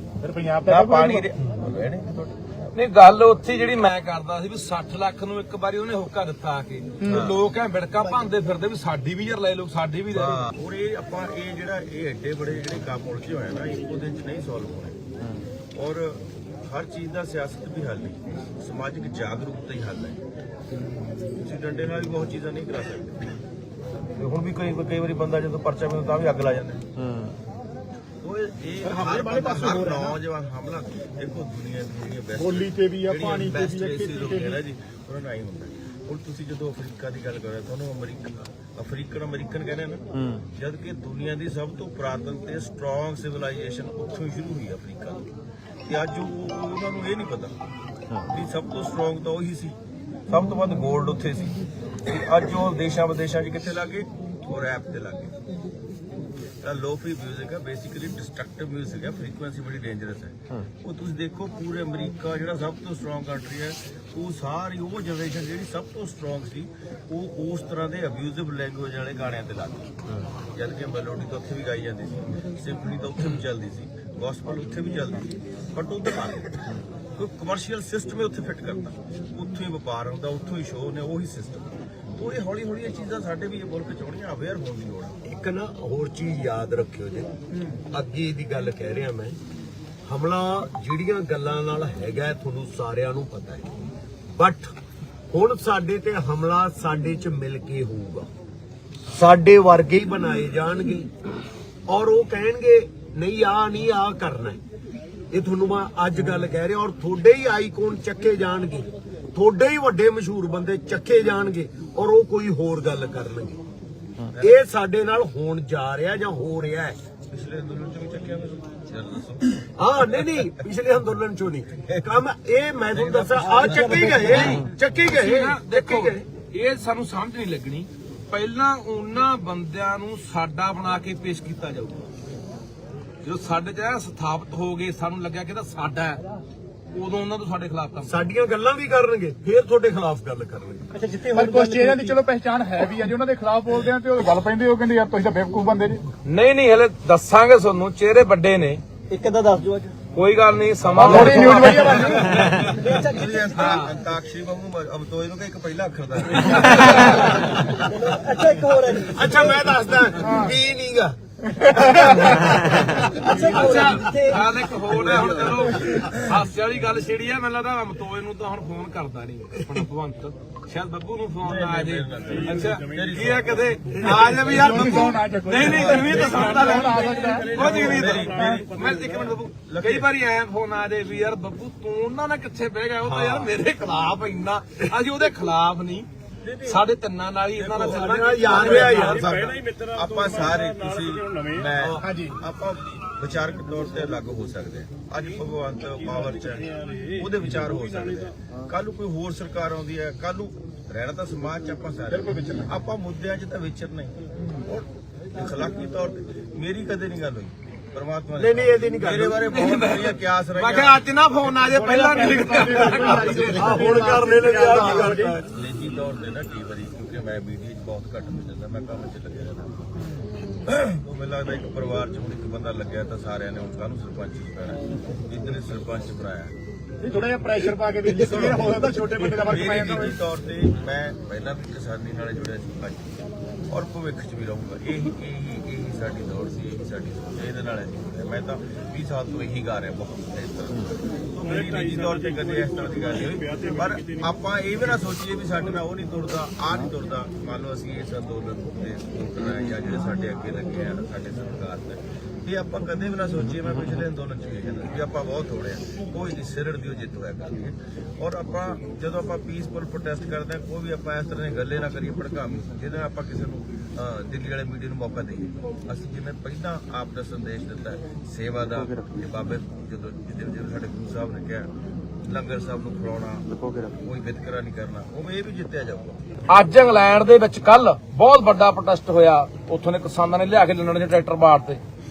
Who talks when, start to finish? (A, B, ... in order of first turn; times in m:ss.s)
0:00.2-0:01.3 A
0:00.6-0:02.8 B
0:02.7-0:10.4 C
0:07.1-0:07.4 B
0:10.1-0:15.0 B
0:15.7-0:20.2 B
0:21.4-0:23.3 B
0:24.2-0:26.8 B
0:28.2-0:45.3 B
0:28.8-0:30.2 A
0:32.4-0:34.6 A
0:45.9-0:47.5 B
0:48.2-0:49.7 B
0:50.3-0:55.4 B
0:56.6-1:09.9 B
1:10.5-1:16.5 B
1:17.2-1:25.2 B
1:25.2-1:27.3 D
1:27.9-1:29.4 D
1:30.0-1:33.7 D
1:34.4-1:34.7 D
1:35.3-1:38.3 D
1:39.1-1:41.1 D
1:41.9-1:44.6 D
1:45.3-1:53.6 D
1:54.3-1:54.6 B
1:54.4-1:57.0 D
1:57.3-2:00.5 B
1:59.8-2:06.2 D
2:02.9-2:04.6 B
2:03.3-2:04.6 E
2:04.2-2:12.1 C
2:13.2-2:16.2 C
2:16.9-2:18.2 C
2:18.0-2:20.8 D
2:20.9-2:22.2 E
2:21.3-2:26.0 A
2:26.2-2:28.8 C
2:29.1-2:29.9 E
2:30.1-2:32.9 C
2:30.9-2:31.2 E
2:31.0-2:32.6 A
2:32.0-2:33.4 E
2:32.7-2:37.8 B
2:33.5-2:33.9 C
2:36.4-2:37.7 C
2:37.0-2:39.8 E
2:39.1-2:44.2 D
2:40.2-2:40.6 A
2:41.5-2:42.4 A
2:43.2-2:44.4 E
2:43.4-3:06.1 C
2:45.0-2:45.5 D
2:51.4-2:53.7 B
2:52.3-2:53.1 A
2:54.2-2:58.6 A
2:55.6-3:00.1 B
3:03.0-3:03.5 B
3:06.6-3:09.4 C
3:07.6-3:31.0 B
3:08.0-3:09.4 D
3:08.9-3:09.5 A
3:10.2-3:10.6 A
3:11.3-3:12.3 A
3:22.1-3:22.7 A
3:28.4-3:29.5 D
3:29.5-3:34.1 C
3:31.7-3:35.3 A
3:32.7-3:35.4 D
3:34.9-3:39.9 B
3:40.7-3:46.5 B
3:47.0-3:50.2 A
3:47.6-4:31.7 B
4:01.4-4:04.2 A
4:32.2-4:36.2 B
4:36.5-4:41.8 C